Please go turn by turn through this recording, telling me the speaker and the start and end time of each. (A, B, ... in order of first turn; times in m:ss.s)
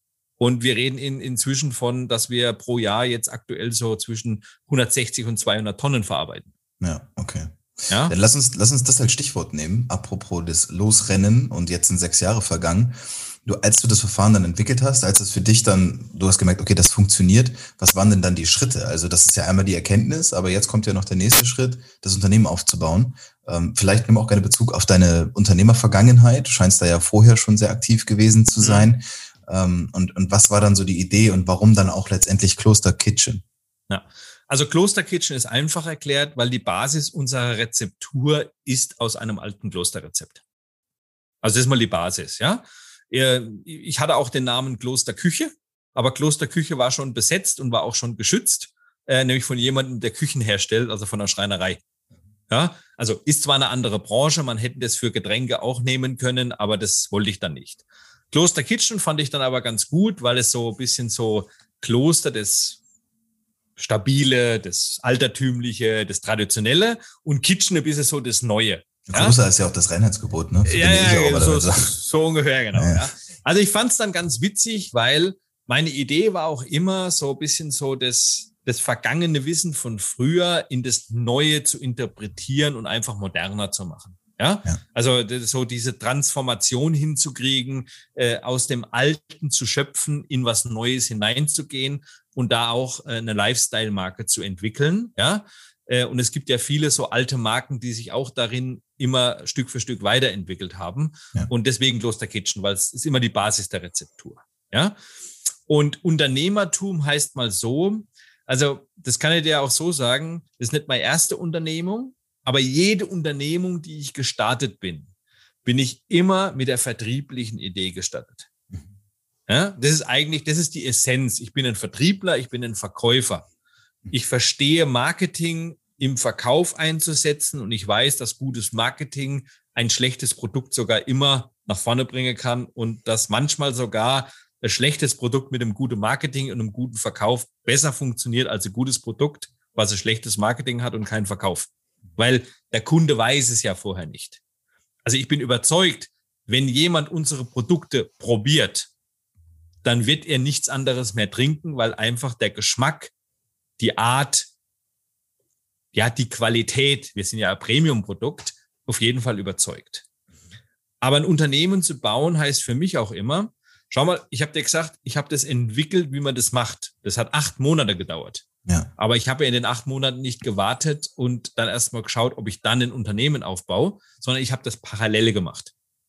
0:00.4-0:06.5 A
0:06.8-0:33.4 B
0:07.9-0:08.1 A
0:28.6-0:28.9 A
0:33.9-0:40.4 A
0:41.4-0:51.8 A
0:52.5-1:02.8 A
1:03.8-1:09.4 A
1:09.1-1:11.9 B
1:10.6-1:45.0 A
1:12.8-1:13.1 B
1:45.7-1:55.1 A
1:55.6-1:58.5 A
1:59.5-2:03.5 A
2:04.1-2:24.4 A
2:25.0-2:28.9 A
2:29.8-2:33.1 A
2:33.8-2:34.5 A
2:35.9-2:40.0 A
2:41.0-2:48.4 A
2:49.0-2:55.7 A